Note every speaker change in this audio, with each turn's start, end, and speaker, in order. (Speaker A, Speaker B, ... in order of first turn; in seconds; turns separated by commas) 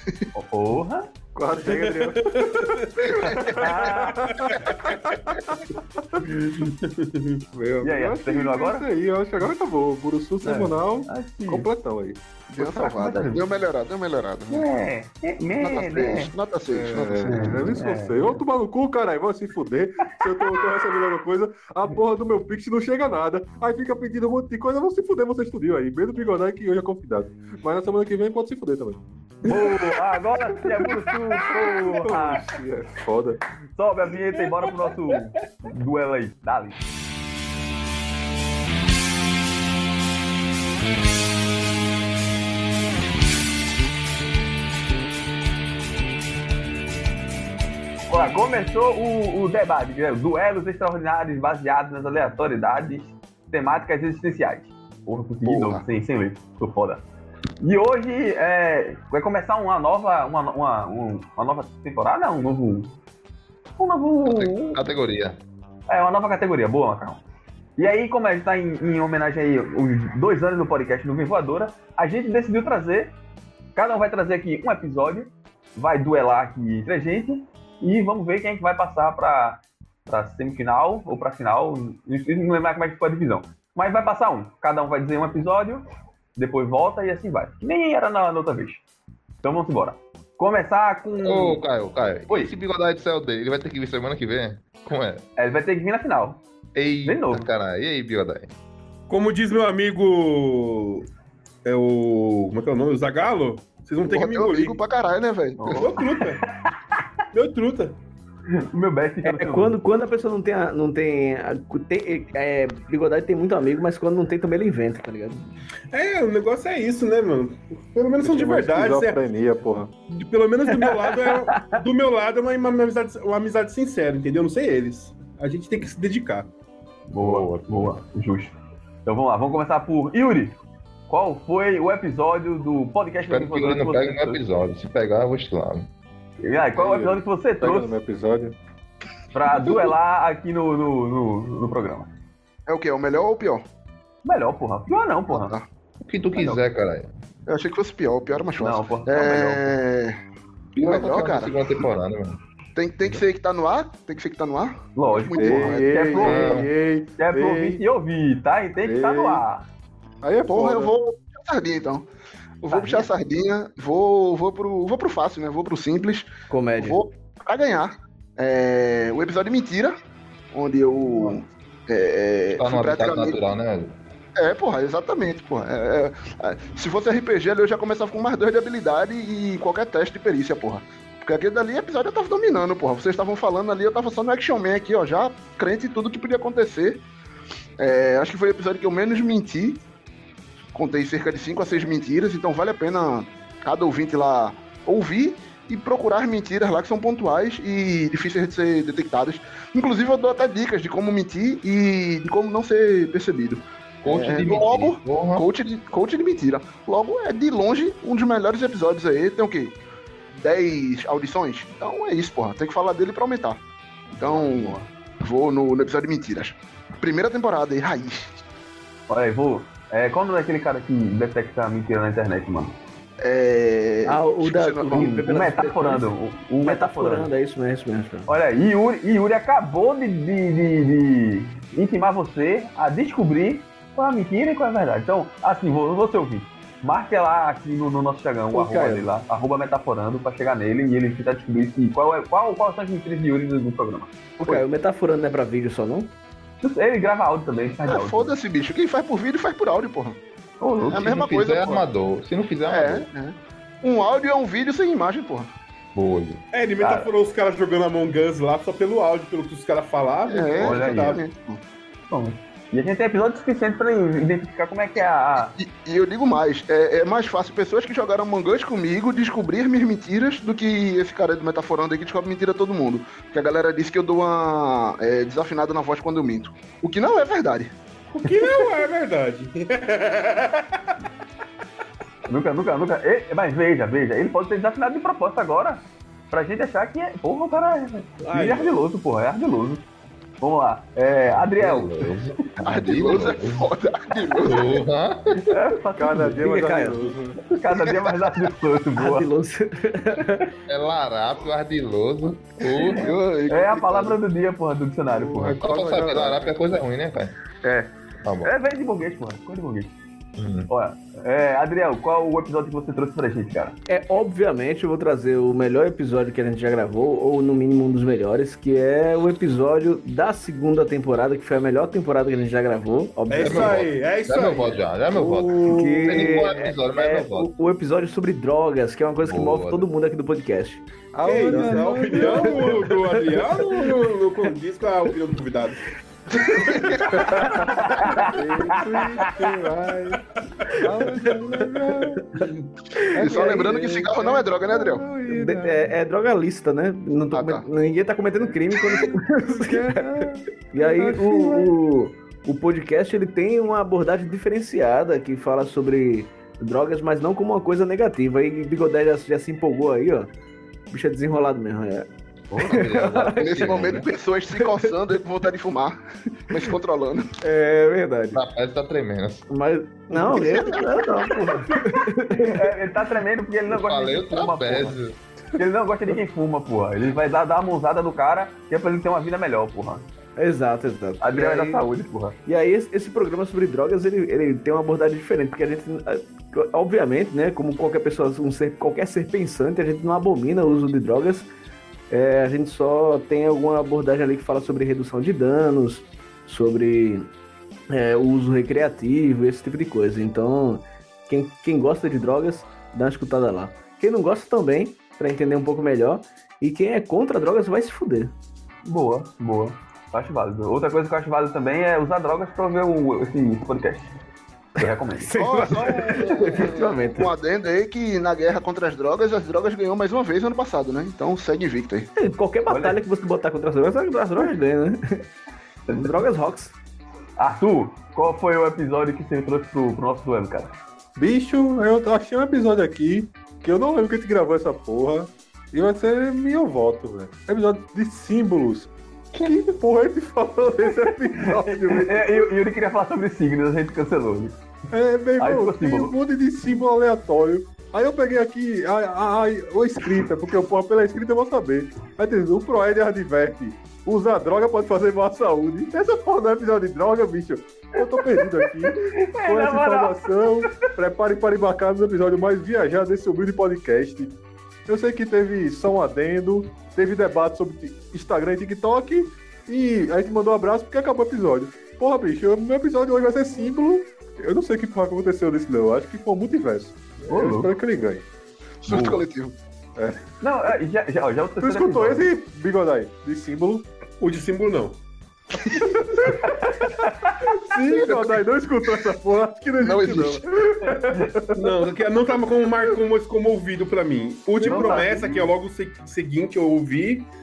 Speaker A: 0.3-1.1, Speaker B: 1.3-6.4, Speaker C: 1.6-2.9, Speaker D: 3.0-3.7, Speaker A: 3.6-4.2, Speaker C: 4.2-4.8, Speaker C: 6.4-7.4, Speaker B: 7.5-12.2, Speaker A: 7.8-8.9, Speaker A: 10.4-11.7, Speaker D: 12.5-14.7, Speaker A: 12.6-13.4, Speaker A: 14.5-16.3, Speaker D: 15.6-17.7, Speaker B: 16.7-29.5, Speaker A: 17.2-18.4, Speaker A: 20.3-20.6, Speaker A: 29.4-32.5, Speaker B: 30.6-33.4, Speaker A: 33.8-36.8, Speaker A: 48.1-57.0, Speaker D: 55.4-55.8, Speaker A: 57.6-62.9, Speaker A: 63.8-64.8, Speaker E: 64.2-65.4, Speaker A: 65.9-67.2, Speaker A: 67.8-73.1, Speaker A: 73.7-85.8, Speaker A: 86.3-88.8, Speaker A: 89.4-91.6, Speaker E: 91.2-95.2, Speaker A: 95.4-96.4, Speaker E: 96.7-98.5, Speaker A: 97.0-97.5, Speaker C: 99.1-101.1, Speaker C: 101.6-104.8, Speaker D: 104.0-105.9, Speaker A: 105.6-106.5, Speaker C: 105.7-106.4, Speaker C: 107.3-108.0, Speaker A: 108.5-109.8, Speaker F: 109.2-115.5, Speaker C: 115.9-119.2, Speaker B: 118.2-119.9, Speaker C: 120.1-126.5, Speaker A: 127.1-130.6, Speaker E: 127.2-128.0, Speaker A: 131.1-134.4, Speaker E: 133.3-135.9, Speaker A: 136.4-137.9, Speaker B: 136.7-138.6, Speaker A: 139.3-142.1, Speaker D: 142.7-143.6, Speaker A: 144.2-145.5, Speaker D: 145.3-145.7, Speaker E: 146.0-147.1, Speaker A: 146.3-146.6, Speaker D: 147.5-150.2, Speaker A: 148.6-149.8, Speaker E: 150.7-152.4, Speaker D: 150.8-151.8, Speaker D: 152.7-156.2, Speaker A: 154.9-159.7, Speaker B: 155.3-157.8, Speaker E: 156.2-156.7, Speaker B: 158.8-159.4, Speaker B: 160.2-160.9, Speaker D: 160.5-162.1, Speaker D: 162.6-170.0, Speaker A: 162.7-163.0, Speaker F: 166.5-167.0, Speaker D: 170.5-173.4, Speaker E: 172.5-173.9, Speaker D: 174.4-187.0, Speaker D: 187.8-189.8, Speaker D: 190.7-209.8, Speaker E: 204.0-205.4, Speaker D: 210.3-213.6, Speaker D: 214.2-218.4, Speaker A: 214.2-214.8, Speaker A: 219.1-222.8, Speaker D: 223.2-225.2, Speaker F: 224.0-226.1, Speaker A: 224.9-227.3, Speaker F: 226.6-228.3, Speaker A: 228.3-244.6, Speaker F: 238.5-239.0, Speaker F: 244.4-246.1, Speaker A: 246.6-248.3, Speaker D: 247.8-250.2, Speaker A: 250.6-251.2, Speaker D: 250.9-251.8, Speaker E: 250.9-253.1, Speaker D: 252.7-255.5, Speaker E: 255.9-256.4, Speaker C: 256.5-261.2, Speaker A: 256.8-257.1, Speaker D: 260.3-261.6, Speaker A: 260.6-261.2, Speaker A: 262.1-265.5, Speaker D: 265.0-277.7, Speaker C: 278.1-280.9, Speaker A: 282.3-289.8, Speaker C: 288.2-288.8, Speaker A: 290.4-292.1, Speaker E: 291.3-293.7, Speaker D: 292.6-294.8, Speaker E: 294.4-295.6, Speaker A: 295.4-299.3, Speaker B: 295.9-297.4, Speaker D: 297.7-298.3, Speaker F: 299.0-300.5, Speaker E: 300.7-303.1, Speaker D: 302.8-304.2, Speaker A: 303.5-305.7, Speaker B: 305.1-306.5, Speaker E: 305.6-307.4, Speaker A: 307.6-309.9, Speaker E: 308.2-308.5, Speaker E: 310.4-310.7, Speaker A: 310.7-313.8, Speaker F: 313.9-323.8, Speaker C: 323.3-324.9, Speaker E: 323.4-327.5, Speaker B: 325.1-325.8, Speaker F: 325.6-330.8, Speaker E: 329.2-329.9, Speaker B: 331.1-333.9, Speaker C: 331.2-335.9, Speaker F: 331.4-332.5, Speaker D: 336.3-337.5, Speaker B: 337.1-340.2, Speaker A: 337.8-339.4, Speaker B: 340.7-342.4, Speaker F: 342.9-343.7, Speaker B: 343.1-345.9, Speaker D: 343.1-345.1, Speaker F: 345.3-360.3, Speaker D: 347.3-347.6, Speaker B: 349.3-351.7, Speaker F: 360.9-362.1, Speaker A: 362.5-362.8, Speaker E: 362.5-364.1, Speaker F: 362.6-363.9, Speaker D: 363.4-367.3, Speaker F: 364.6-364.9, Speaker F: 367.4-368.4, Speaker E: 368.3-369.4, Speaker F: 369.5-372.7, Speaker D: 370.2-370.9, Speaker A: 372.4-375.0, Speaker E: 373.7-375.2, Speaker A: 375.6-380.1, Speaker F: 380.4-381.8, Speaker A: 381.2-382.4, Speaker F: 382.4-391.5, Speaker F: 392.1-397.3, Speaker F: 397.9-408.3, Speaker A: 408.8-414.1, Speaker A: 414.8-415.4, Speaker F: 414.8-417.3, Speaker D: 415.3-422.1, Speaker F: 422.2-425.2, Speaker A: 422.7-423.0, Speaker A: 425.9-426.1, Speaker F: 426.0-426.7, Speaker A: 427.4-430.8, Speaker B: 431.1-442.5, Speaker A: 441.3-444.6, Speaker B: 444.9-464.4, Speaker A: 445.4-446.1, Speaker A: 458.2-460.9, Speaker B: 464.9-478.2, Speaker A: 477.3-477.7, Speaker D: 478.8-479.6, Speaker A: 478.9-479.2, Speaker A: 480.4-482.3, Speaker B: 481.6-483.9, Speaker C: 484.2-485.0, Speaker B: 485.6-491.8, Speaker A: 486.6-487.4, Speaker D: 487.9-488.5, Speaker D: 489.8-490.4, Speaker A: 491.0-491.3, Speaker C: 491.5-497.3, Speaker B: 494.6-495.1, Speaker A: 494.6-495.5